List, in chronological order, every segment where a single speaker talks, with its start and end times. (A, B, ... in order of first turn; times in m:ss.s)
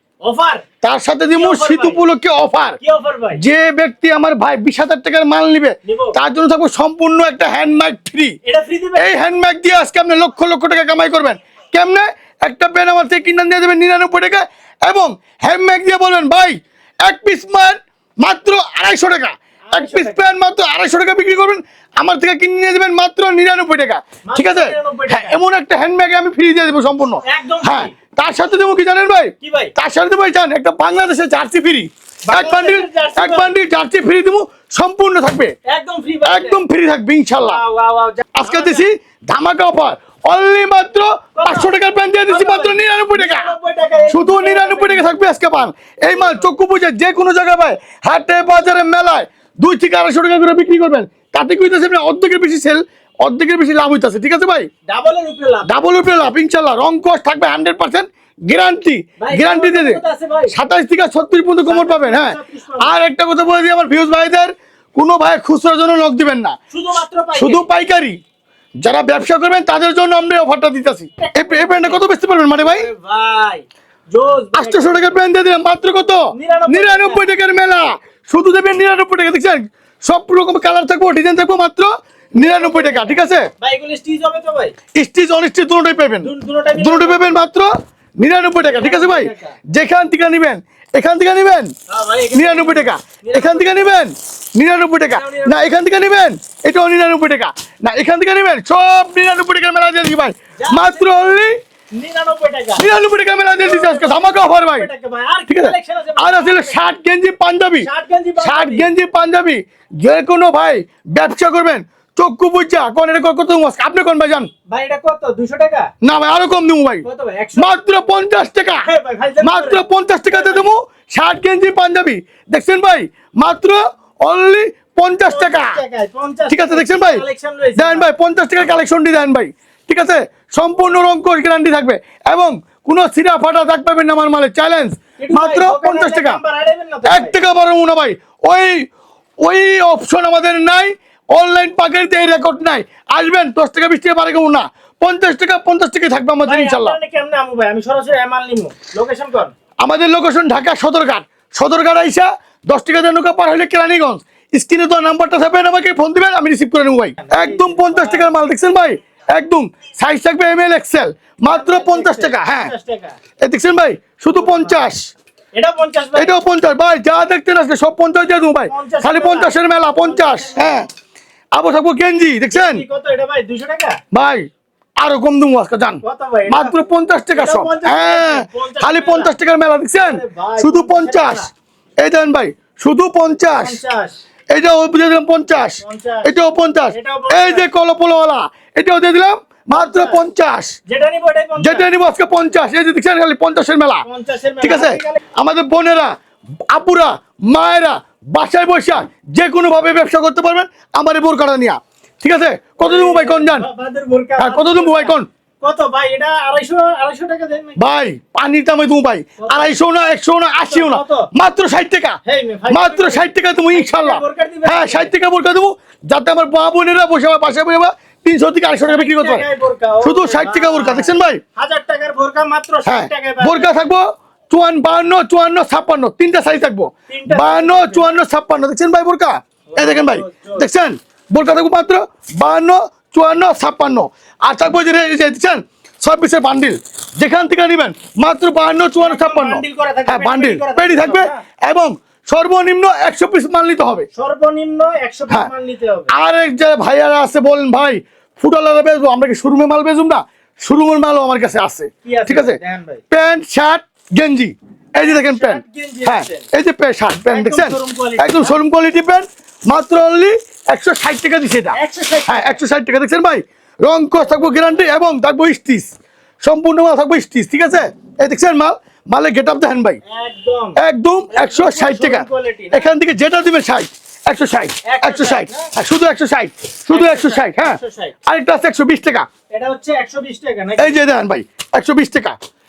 0:00.2-0:00.6 A
0:00.8-0:02.8 B
0:01.3-0:02.0 A
0:02.8-0:03.4 A
0:03.3-0:08.4 B
0:05.8-0:06.2 A
0:08.4-0:09.1 A
0:09.0-0:35.5 B
0:19.7-0:20.2 A
0:24.2-0:25.4 A
0:27.2-0:27.9 A
0:29.4-0:29.7 A
0:32.3-0:33.5 A
0:35.6-0:36.6 A
0:36.2-0:37.6 B
0:37.4-0:38.9 A
0:38.4-0:43.5 B
0:41.4-0:41.7 A
0:42.3-0:45.1 A
0:44.1-0:54.7 B
0:46.1-0:46.4 A
0:54.9-0:55.7 A
0:55.6-1:06.6 B
0:59.2-1:00.5 A
1:01.6-1:03.0 A
1:06.7-1:07.7 A
1:07.4-1:08.2 B
1:08.8-1:12.9 B
1:11.2-1:12.0 A
1:12.6-1:15.2 A
1:14.5-1:23.5 B
1:16.3-1:17.3 A
1:22.4-1:24.7 A
1:24.9-1:31.7 B
1:26.2-1:27.4 A
1:28.6-1:29.6 A
1:31.9-1:33.8 A
1:32.3-1:41.5 B
1:35.1-1:35.7 A
1:40.6-1:42.9 A
1:42.8-1:44.9 B
1:43.6-1:46.9 A
1:45.5-1:47.9 B
1:47.8-1:48.9 A
1:48.4-1:54.5 B
1:54.7-1:55.9 A
1:56.0-1:57.0 B
1:57.0-1:58.2 A
1:57.6-1:58.8 B
1:58.8-2:00.6 A
1:59.4-2:05.8 B
2:05.2-2:08.1 A
2:06.5-2:07.2 B
2:07.8-2:16.4 B
2:15.2-2:17.4 A
2:17.0-2:18.9 B
2:19.4-2:27.0 B
2:26.4-2:29.5 A
2:29.8-2:42.7 B
2:37.2-2:38.3 A
2:41.4-2:43.2 A
2:43.4-2:45.1 B
2:44.3-2:44.8 A
2:45.5-2:46.4 A
2:46.1-2:50.9 B
2:48.7-2:50.9 A
2:51.5-2:52.8 B
2:52.5-2:54.0 A
2:54.1-2:54.5 B
2:55.0-3:01.4 B
2:56.0-2:56.8 A
2:57.3-2:59.3 A
2:59.9-3:01.5 A
3:02.0-3:03.8 B
3:03.5-3:04.2 A
3:04.5-3:10.8 B
3:05.8-3:06.3 A
3:06.9-3:07.7 A
3:09.7-3:10.2 A
3:10.9-3:11.9 A
3:11.6-3:14.0 B
3:14.0-3:15.2 A
3:14.6-3:16.1 B
3:16.7-3:23.6 B
3:22.8-3:27.8 A
3:24.4-3:25.3 B
3:27.8-3:32.2 B
3:29.4-3:29.8 A
3:30.6-3:31.3 A
3:32.2-3:35.1 A
3:32.7-3:39.4 B
3:38.8-3:43.8 A
3:40.0-3:41.4 B
3:42.8-4:04.1 B
3:47.1-3:48.2 A
3:49.7-3:50.6 A
3:59.0-4:01.4 A
4:04.1-4:06.1 A
4:06.1-4:12.6 B
4:12.0-4:13.0 A
4:13.1-4:25.9 B
4:15.0-4:16.5 A
4:17.2-4:18.6 A
4:21.7-4:22.6 A
4:24.4-4:24.8 A
4:26.4-4:30.0 B
4:30.0-4:30.8 A
4:30.8-4:39.2 B
4:31.3-4:32.9 A
4:34.8-4:35.7 A
4:36.9-4:38.1 A
4:39.5-4:41.0 A
4:40.8-4:42.4 B